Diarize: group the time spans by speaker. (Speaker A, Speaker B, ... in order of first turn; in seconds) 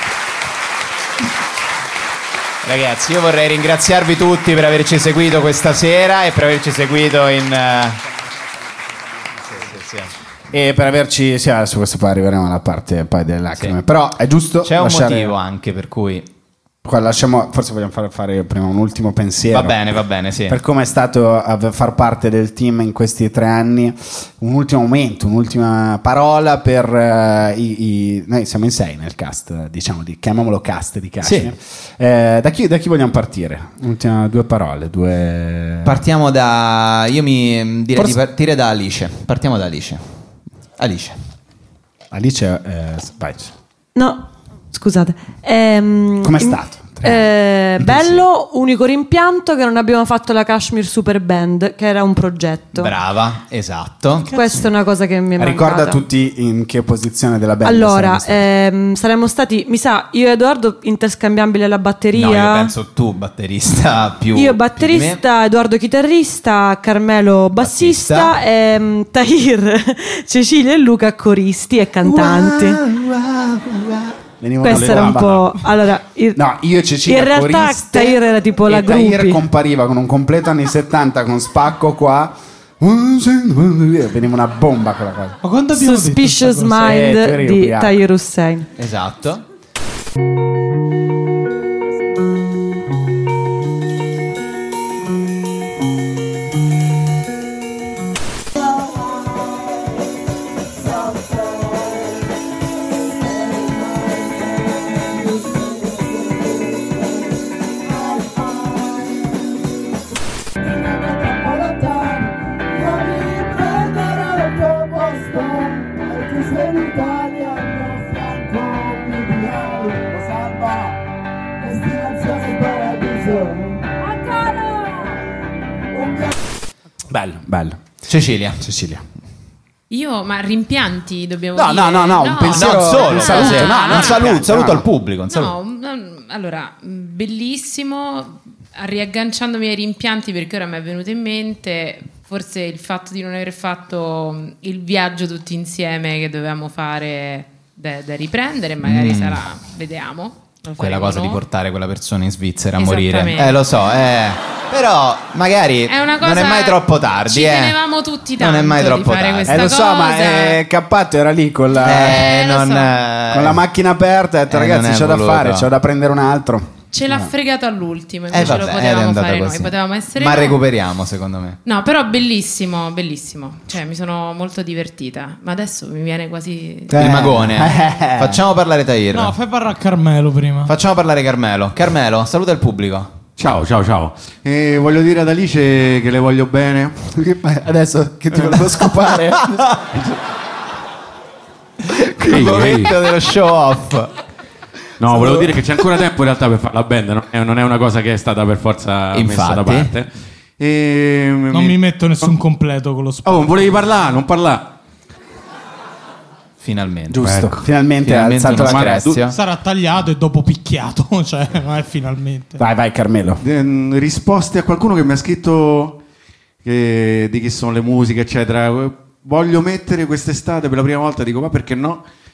Speaker A: 2.6-8.0, 9.5-10.1, 14.6-16.3, 19.5-20.6, 31.2-31.5, 35.9-40.0, 40.8-41.2, 52.8-54.4, 62.1-65.2, 67.6-68.3, 72.1-74.1, 88.8-89.5, 128.1-128.6, 132.4-135.5, 148.8-149.4, 150.8-157.8, 158.4-159.8, 161.8-163.6, 164.5-165.7, 168.3-171.6, 176.9-179.3, 180.7-183.1, 192.2-194.1, 199.1-199.9, 206.6-207.3, 208.0-209.4
Speaker B: 10.5-15.3, 16.8-19.8, 20.5-36.0, 42.1-43.5, 46.2-47.3, 47.8-48.2, 55.4-58.4, 74.4-75.6, 76.4-85.4, 86.8-88.0, 111.1-112.2, 112.8-120.9, 121.7-123.8, 127.1-127.8, 128.6-129.0, 131.6-134.9, 159.5-162.3, 163.3-167.3, 176.9-178.4, 187.2-189.7, 195.1-195.5, 207.1-209.2, 212.6-213.4
Speaker C: 44.0-52.9, 54.3-56.0, 57.6-62.7, 64.3-72.8, 74.6-76.5, 77.0-79.5, 85.7-88.7
Speaker D: 74.7-75.2, 183.4-187.1, 192.2-192.9, 195.0-202.3, 203.2-204.7, 207.2-207.6, 208.4-209.2, 213.4-216.0, 216.6-222.0
Speaker E: 85.4-86.8, 179.1-180.7, 201.5-203.6, 209.3-212.6
Speaker F: 129.9-134.4, 135.3-151.4, 152.8-153.6, 155.9-160.6, 161.9-163.0, 166.9-170.6, 171.7-177.0